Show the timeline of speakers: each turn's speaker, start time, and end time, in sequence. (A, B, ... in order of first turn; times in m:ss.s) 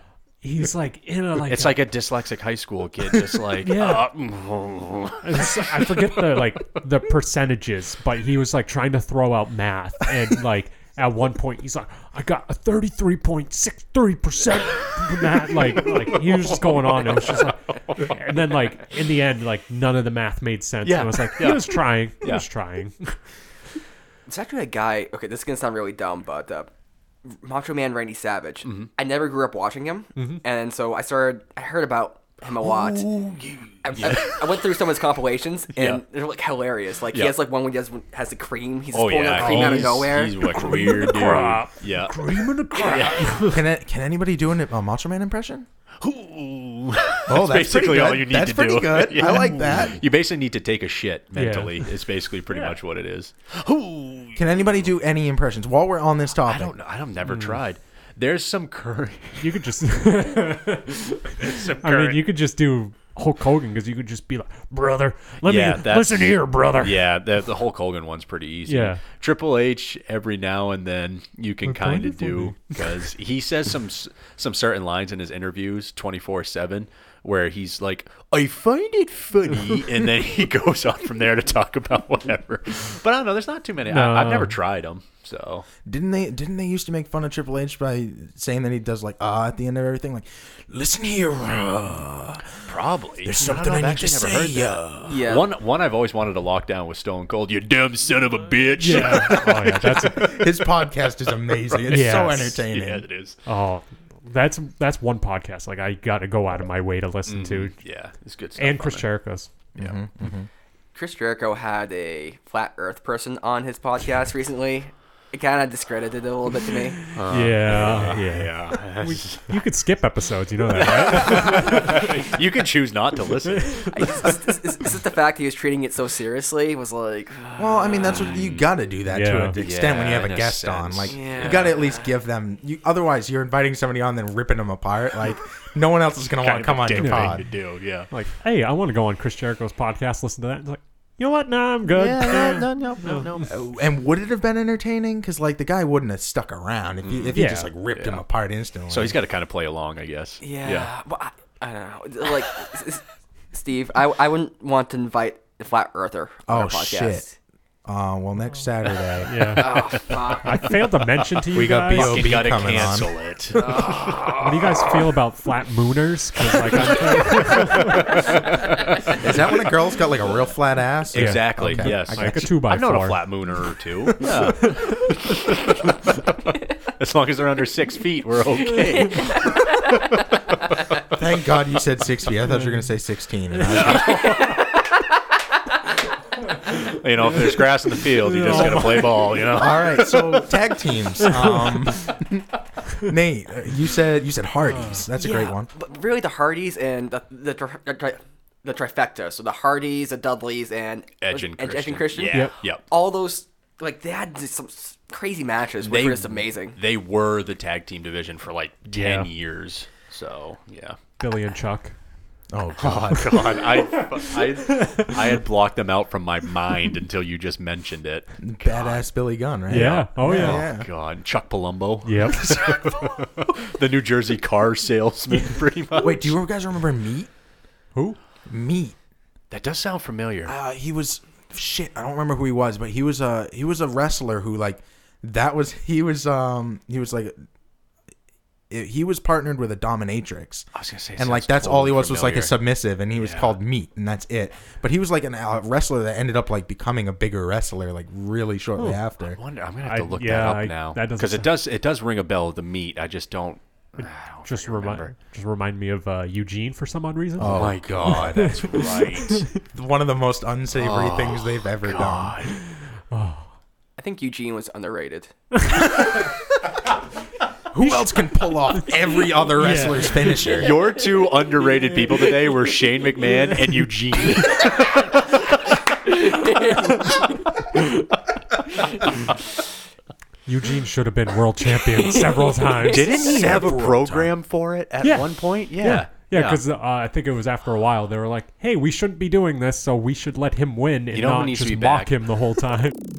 0:00.4-0:01.8 A
0:01.5-0:06.4 B
0:03.6-0:04.1 A
0:05.2-0:23.2 A
0:15.6-0:18.1 B
0:20.8-0:22.4 B
0:24.3-0:26.7 C
0:27.2-0:33.1 C
0:28.6-0:28.9 B
0:30.2-0:30.4 A
0:32.6-0:34.6 B
0:33.8-0:40.8 C
0:35.8-0:36.0 B
0:37.1-0:37.4 B
0:38.9-0:42.2 B
0:39.4-0:43.6 A
0:42.7-0:43.4 B
0:42.8-0:43.1 C
0:43.4-0:45.6 D
0:46.0-0:54.8 B
0:47.3-0:50.0 D
0:51.4-0:51.8 A
0:54.4-0:56.7 D
0:56.4-0:59.6 B
0:57.2-0:57.6 A
0:59.4-1:07.0 A
1:01.4-1:02.2 B
1:05.4-1:25.7 B
1:08.7-1:09.0 A
1:11.6-1:13.0 A
1:23.9-1:24.6 A
1:25.8-1:32.5 D
1:32.6-1:39.4 B
1:33.2-1:35.2 D
1:35.1-1:35.5 C
1:38.8-1:40.4 A
1:38.9-1:43.0 D
1:41.7-1:43.4 B
1:41.9-1:42.6 A
1:43.4-1:47.8 A
1:47.3-1:49.0 B
1:48.6-1:49.5 A
1:49.7-1:50.5 D
1:50.9-1:57.1 C
1:57.1-1:59.6 B
1:57.3-2:02.3 A
2:00.7-2:04.2 B
2:03.5-2:03.9 A
2:03.9-2:08.3 C
2:07.6-2:17.4 D
2:08.0-2:08.6 B
2:09.1-2:09.6 A
2:09.6-2:11.7 B
2:11.1-2:12.1 C
2:16.3-2:18.1 B
2:17.0-2:17.5 A
2:18.1-2:23.3 A
2:21.9-2:23.6 B
2:22.0-2:29.2 D
2:27.0-2:28.2 B
2:27.3-2:27.7 A
2:28.9-2:30.9 B
2:30.4-2:37.3 C
2:36.5-2:37.2 D
2:37.8-2:39.8 D
2:39.2-2:42.4 A
2:39.6-2:40.7 C
2:39.9-2:40.4 B
2:41.5-2:43.7 D
2:41.9-2:44.9 B
2:43.5-2:44.4 C
2:44.3-2:48.2 A
2:46.6-2:49.2 B
2:49.1-2:52.5 D
2:51.1-3:00.2 B
2:51.1-2:53.2 A
2:54.2-2:55.0 A
2:59.1-2:59.6 C
3:01.1-3:04.3 D
3:03.6-3:04.4 B
3:04.1-3:04.6 C
3:06.7-3:10.5 B
3:08.3-3:09.0 A
3:08.3-3:12.5 D
3:11.2-3:11.6 A
3:13.0-3:15.7 D
3:15.2-3:26.8 C
3:21.2-3:22.8 B
3:25.8-3:31.0 B
3:28.9-3:29.3 A
3:31.2-3:31.9 A
3:32.5-3:33.6 D
3:32.8-3:39.0 B
3:34.7-3:35.1 A
3:38.4-3:40.9 D
3:39.7-3:40.6 A
3:39.7-3:46.4 B
3:42.0-3:42.6 A
3:42.4-3:43.5 D
3:46.0-3:47.3 D
3:48.5-3:49.0 D
3:49.5-3:50.5 B
3:50.4-3:57.4 D
3:58.7-4:09.4 D
4:00.7-4:02.6 B
4:03.1-4:03.6 B
4:09.3-4:15.1 B
4:09.8-4:11.5 A
4:14.0-4:19.5 A
4:17.4-4:18.7 D
4:17.4-4:19.5 B
4:19.6-4:22.4 D
4:20.7-4:22.5 B
4:23.1-4:23.5 A
4:24.0-4:26.0 C
4:27.7-4:30.8 D
4:27.8-4:30.4 A
4:30.3-4:35.6 B
4:36.1-4:37.3 C
4:40.4-4:43.5 A
4:41.9-4:42.8 C
4:42.8-4:46.6 B
4:43.1-4:44.3 D
4:45.0-4:53.0 A
4:51.1-4:52.1 B